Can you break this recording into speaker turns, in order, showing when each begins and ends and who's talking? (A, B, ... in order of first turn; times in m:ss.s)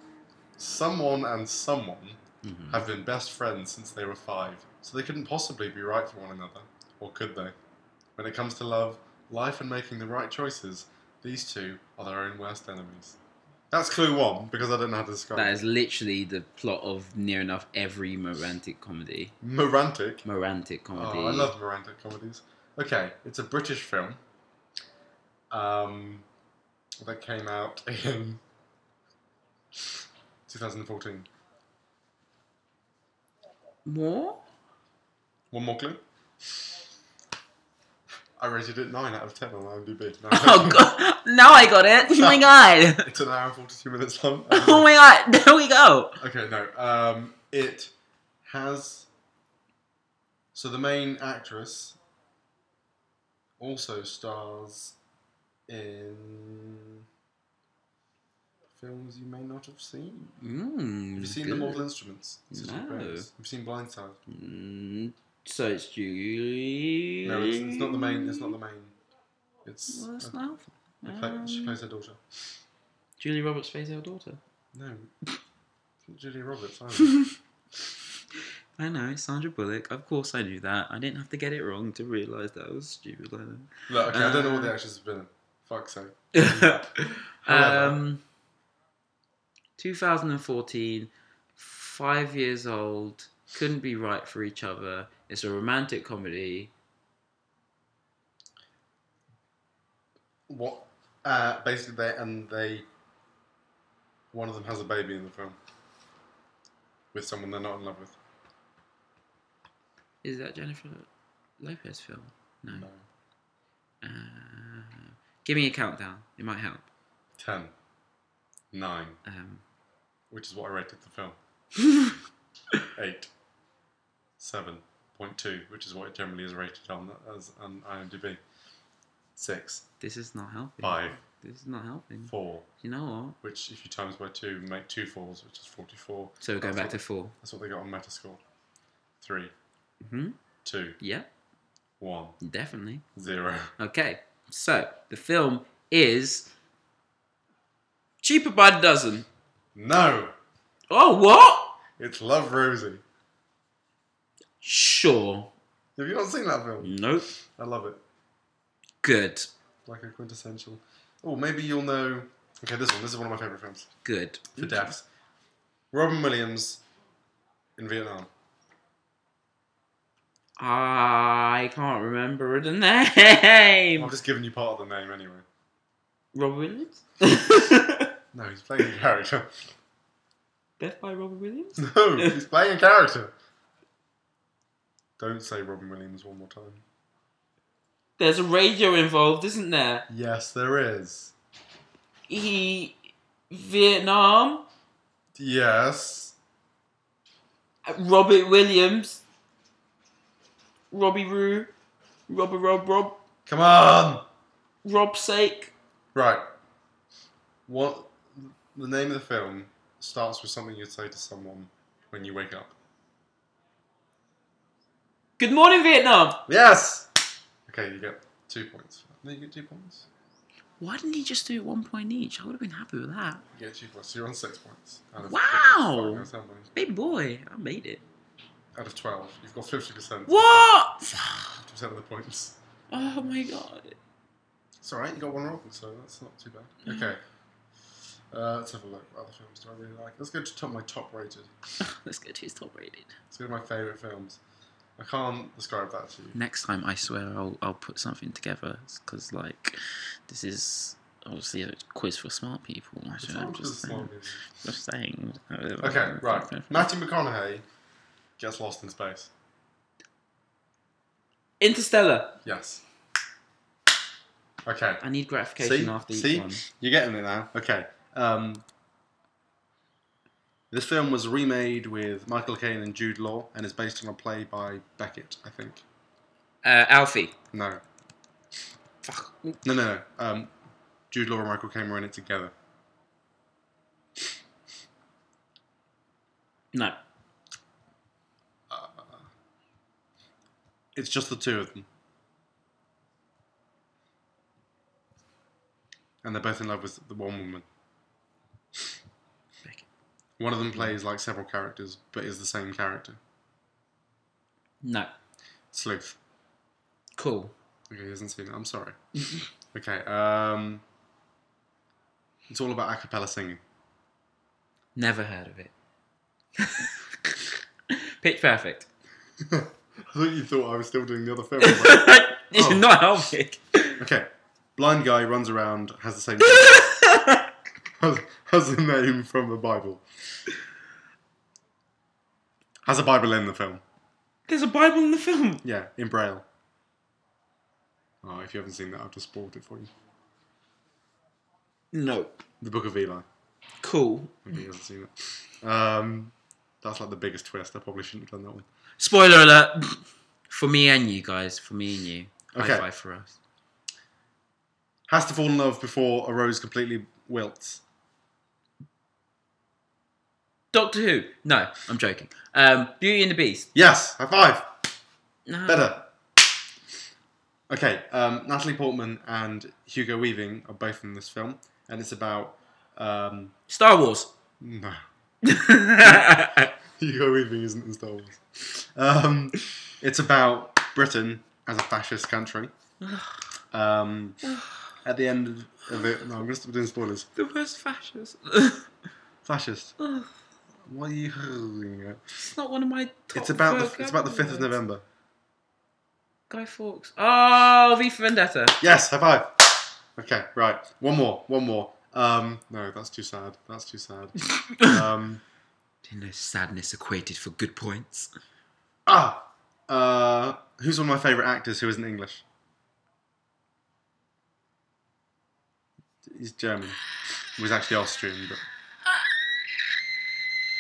0:00.6-0:07.6 A
0:02.4-0:02.8 B
0:08.2-0:13.2 A
0:13.7-0:15.6 A
0:15.4-0:19.3 B
0:19.4-0:20.2 A
0:20.2-0:21.5 B
0:20.9-0:24.2 A
0:25.5-0:26.3 A
0:27.0-0:28.4 A
0:30.5-0:31.3 A
0:33.8-0:34.4 B
0:35.5-0:36.0 A
0:38.4-0:40.9 A
0:40.3-0:43.1 B
0:42.2-0:42.5 A
0:43.0-0:44.9 A
0:44.5-0:46.2 B
0:46.2-0:47.9 A
0:48.4-0:49.1 A
0:50.5-0:52.0 A
0:53.6-0:55.0 A
0:55.7-0:57.0 A
0:58.7-1:00.3 A
1:00.4-1:01.9 B
1:01.2-1:04.2 A
1:02.5-1:03.3 B
1:04.3-1:08.5 B
1:07.2-1:09.0 A
1:09.6-1:10.4 A
1:09.9-1:11.8 B
1:11.0-1:12.2 A
1:13.2-1:14.4 B
1:14.7-1:15.1 A
1:16.0-1:17.2 A
1:18.8-1:24.7 B
1:23.9-1:28.0 A
1:26.3-1:28.2 B
1:29.8-1:36.7 B
1:40.5-1:42.9 A
1:44.3-1:45.6 A
1:47.1-1:48.2 A
1:50.2-1:51.1 B
1:51.6-1:52.9 B
1:52.7-1:53.0 A
1:54.0-1:56.9 B
1:57.4-1:57.7 A
1:58.7-1:59.2 A
1:59.2-1:59.6 B
2:00.3-2:01.4 A
2:01.8-2:02.2 B
2:03.0-2:03.3 A
2:04.4-2:08.4 A
2:09.4-2:09.8 A
2:10.0-2:13.4 B
2:10.8-2:11.2 A
2:12.3-2:12.7 A
2:13.4-2:18.4 A
2:16.4-2:17.3 B
2:19.2-2:19.5 A
2:20.0-2:20.4 B
2:20.6-2:21.0 A
2:21.0-2:21.3 B
2:22.0-2:22.4 A
2:22.4-2:23.0 B
2:23.2-2:23.7 A
2:23.8-2:26.5 B
2:28.2-2:29.3 B
2:29.8-2:30.3 A
2:30.9-2:31.8 B
2:32.0-2:33.0 A
2:34.6-2:35.5 B
2:36.0-2:37.0 A
2:36.8-2:37.3 B
2:37.6-2:38.0 A
2:39.0-2:39.5 B
2:39.9-2:43.9 A
2:44.0-2:44.9 B
2:44.6-2:45.0 A
2:45.9-2:46.8 A
2:47.8-2:48.3 A
2:50.6-2:54.1 B
2:54.0-2:55.4 A
2:56.3-2:58.1 B
2:58.3-2:59.5 A
3:00.8-3:02.4 B
3:01.8-3:03.3 A
3:05.2-3:06.8 A
3:08.2-3:10.1 B
3:10.1-3:11.3 A
3:12.3-3:13.0 B
3:13.5-3:14.7 B
3:15.4-3:16.4 A
3:17.8-3:19.2 B
3:20.9-3:21.7 B
3:22.3-3:23.2 B
3:23.5-3:24.2 A
3:24.8-3:25.7 B
3:26.1-3:26.4 A
3:27.7-3:32.8 A
3:35.4-3:36.4 B
3:36.5-3:37.1 A
3:37.7-3:40.1 A
3:40.8-3:43.4 B
3:43.5-3:46.7 A
3:45.2-3:48.0 B
3:48.8-3:52.6 A
3:50.3-3:51.6 B
3:52.9-3:54.0 B
3:54.8-3:57.2 A
3:56.9-3:57.1 B
3:58.3-4:01.5 A
4:01.8-4:03.2 B
4:03.3-4:04.4 A
4:05.0-4:06.4 A
4:06.3-4:16.9 B
4:13.2-4:14.4 A
4:15.8-4:17.6 A
4:18.4-4:19.3 A
4:21.6-4:22.4 B
4:22.4-4:22.8 A
4:24.7-4:25.0 A
4:25.0-4:26.6 B
4:25.6-4:28.6 A
4:30.7-4:35.8 A
4:36.6-4:37.4 B
4:37.5-4:37.8 A
4:39.0-4:39.6 B
4:39.6-4:40.5 A
4:41.1-4:42.5 A
4:46.7-4:47.0 B
4:48.7-4:49.2 A
4:51.0-4:51.9 A
4:56.2-4:57.7 A
5:00.4-5:03.2 A
5:04.8-5:05.1 B
5:05.7-5:06.2 A
5:07.2-5:07.5 B
5:07.9-5:09.0 A
5:09.7-5:10.8 A
5:12.5-5:13.6 A
5:15.0-5:15.7 B
5:16.6-5:18.9 B
5:19.4-5:22.9 A
5:21.6-5:24.0 B
5:24.0-5:26.9 A
5:26.4-5:27.5 B
5:28.0-5:30.0 A
5:32.8-5:33.8 A
5:34.5-5:35.6 B
5:35.6-5:36.4 A
5:38.2-5:39.9 A
5:41.9-5:42.4 B
5:42.6-5:43.3 A
5:43.8-5:44.6 B
5:44.5-5:48.6 A
5:49.0-5:53.4 B
5:52.5-5:52.9 A
5:55.1-5:57.8 A
6:00.7-6:03.7 B
6:03.7-6:04.7 A
6:05.5-6:06.0 B
6:05.7-6:06.1 A
6:07.7-6:13.5 A
6:13.7-6:14.3 B
6:14.6-6:15.0 A
6:15.4-6:16.7 B
6:16.0-6:22.7 A
6:23.0-6:23.3 B
6:23.7-6:24.4 A
6:24.4-6:24.8 B
6:25.0-6:27.3 A
6:27.4-6:28.9 B
6:29.4-6:29.9 A
6:30.0-6:30.3 B
6:30.8-6:32.2 A
6:32.4-6:34.8 B
6:33.4-6:35.0 A
6:36.5-6:38.8 B
6:38.8-6:45.4 A
6:44.5-6:45.0 B
6:46.0-6:48.3 B
6:49.1-6:52.4 A
6:56.3-6:57.0 A
6:57.6-6:58.6 A